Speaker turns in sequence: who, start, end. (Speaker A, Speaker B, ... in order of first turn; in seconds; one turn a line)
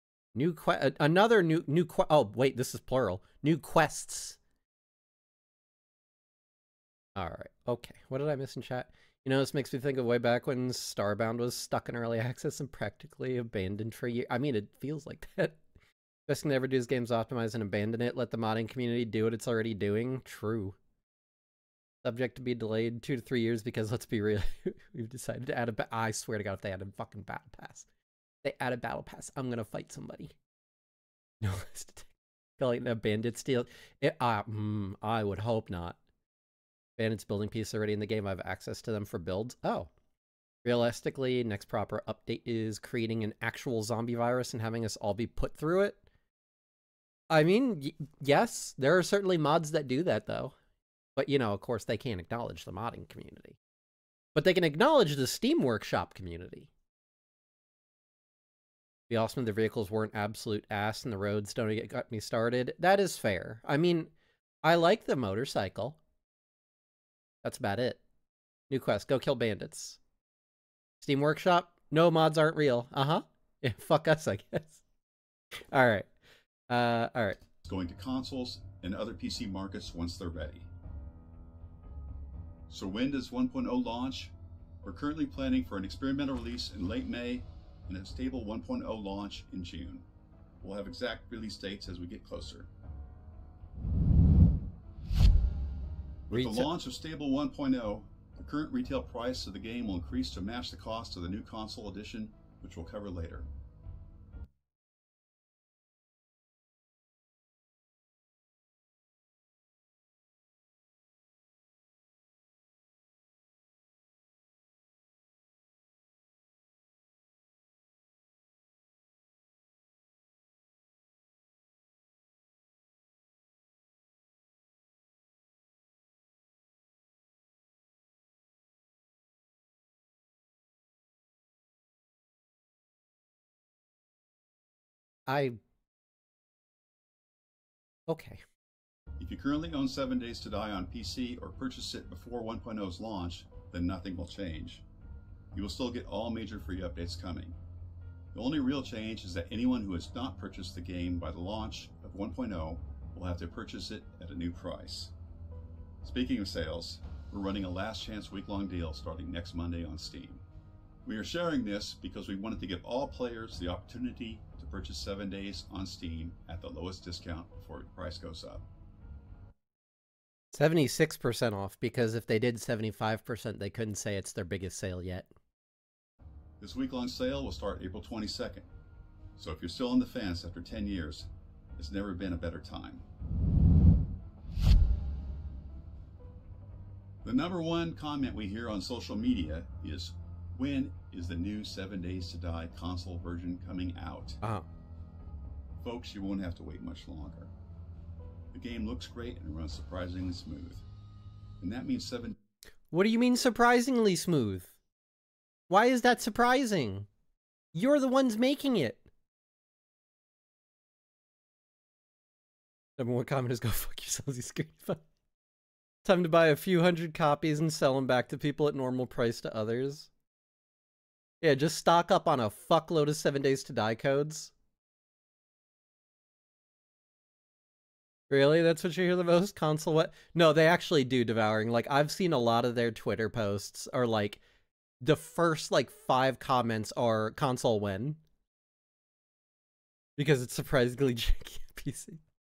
Speaker A: 0.3-4.4
Speaker A: 7.2-15.6
Speaker A: 16.3-20.8
Speaker A: 22.0-27.9
Speaker A: 28.4-30.4
Speaker A: 31.4-36.0
Speaker A: 37.0-39.9
Speaker A: 40.6-46.0
Speaker A: 47.3-50.5
Speaker A: 51.2-53.6
Speaker A: 54.4-56.7
Speaker A: 59.1-64.1
Speaker A: 64.6-66.0
Speaker A: 67.4-68.0
Speaker A: 68.7-70.0
Speaker A: 71.0-74.8
Speaker A: 75.7-76.1
Speaker A: 76.7-77.4
Speaker B: 77.6-80.7
Speaker B: 82.7-90.1
Speaker B: 90.6-92.7
Speaker A: 96.3-96.7
Speaker B: 96.3-103.5
Speaker A: 135.3-135.6
Speaker A: 138.1-138.4
Speaker B: 139.2-144.8
Speaker B: 145.5-147.6
Speaker B: 148.3-155.1
Speaker B: 156.0-160.4
Speaker B: 161.1-168.7
Speaker A: 170.5-175.3
Speaker B: 176.6-178.7
Speaker B: 179.4-183.0
Speaker B: 187.2-194.4
Speaker A: 194.4-194.7
Speaker B: 195.8-197.5
Speaker B: 198.5-200.8
Speaker B: 201.6-202.3
Speaker A: 202.9-204.7
Speaker A: 205.7-207.1
Speaker A: 207.7-209.1
Speaker A: 213.0-215.0
Speaker A: 216.1-220.1
Speaker A: 221.4-224.5
Speaker A: 228.3-234.4
Speaker A: 235.0-238.2
Speaker A: 240.2-242.2